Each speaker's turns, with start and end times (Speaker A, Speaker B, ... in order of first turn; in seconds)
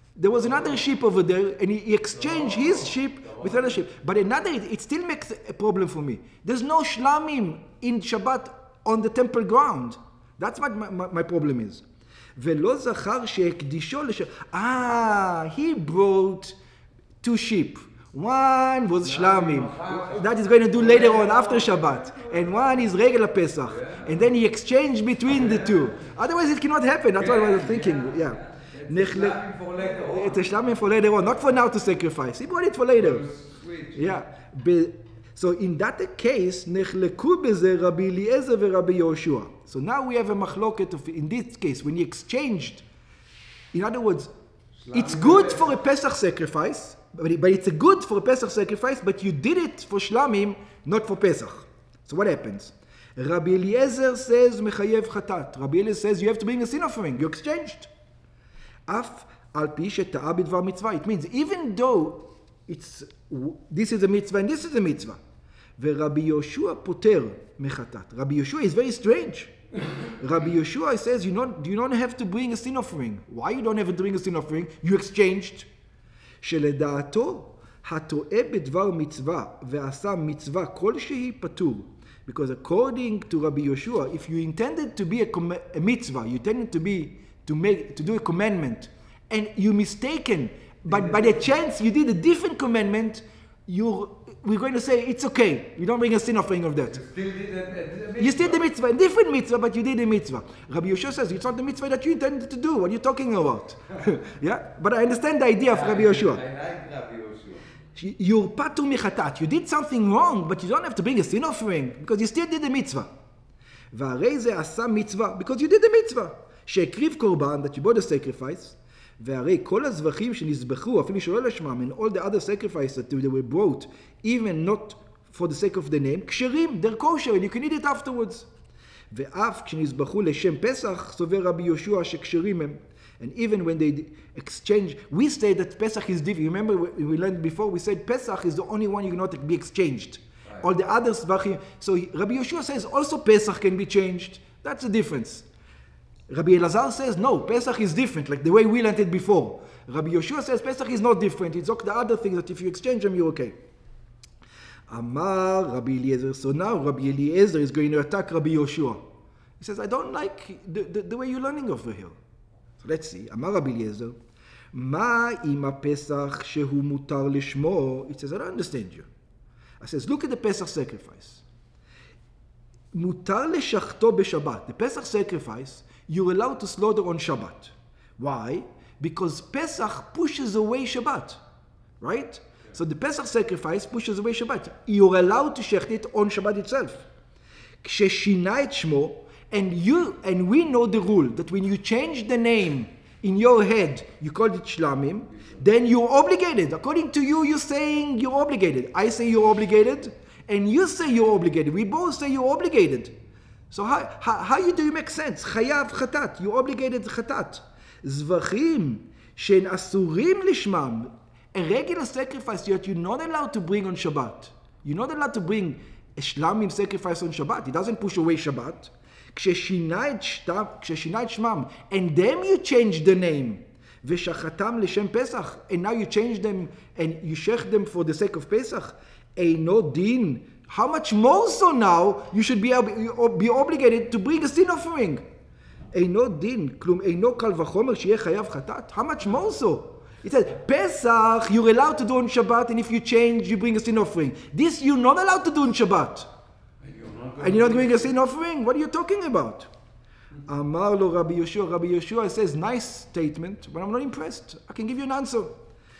Speaker A: 0.2-11.8, 12.4-16.6, 17.2-29.4, 30.0-33.3, 34.0-42.9, 43.7-44.3, 44.9-57.9, 58.9-65.2, 65.8-69.5, 70.1-75.7, 76.4-97.0, 98.2-106.4, 108.0-113.1, 113.9-128.5, 129.1-145.5, 146.3-153.6, 154.9-159.0, 159.6-162.2, 162.8-164.2, 164.7-169.1, 169.8-171.4, 172.9-181.4, 182.0-187.1, 187.8-203.1, 203.7-235.2, 235.9-246.3, 247.4-249.7, 250.5-255.6
Speaker B: 0.3-0.8, 2.1-3.8, 19.0-22.4, 23.7-24.2, 25.3-26.0, 27.2-30.6, 32.9-34.1, 44.8-45.8, 90.9-91.5, 96.9-98.6, 105.7-107.7, 246.8-248.1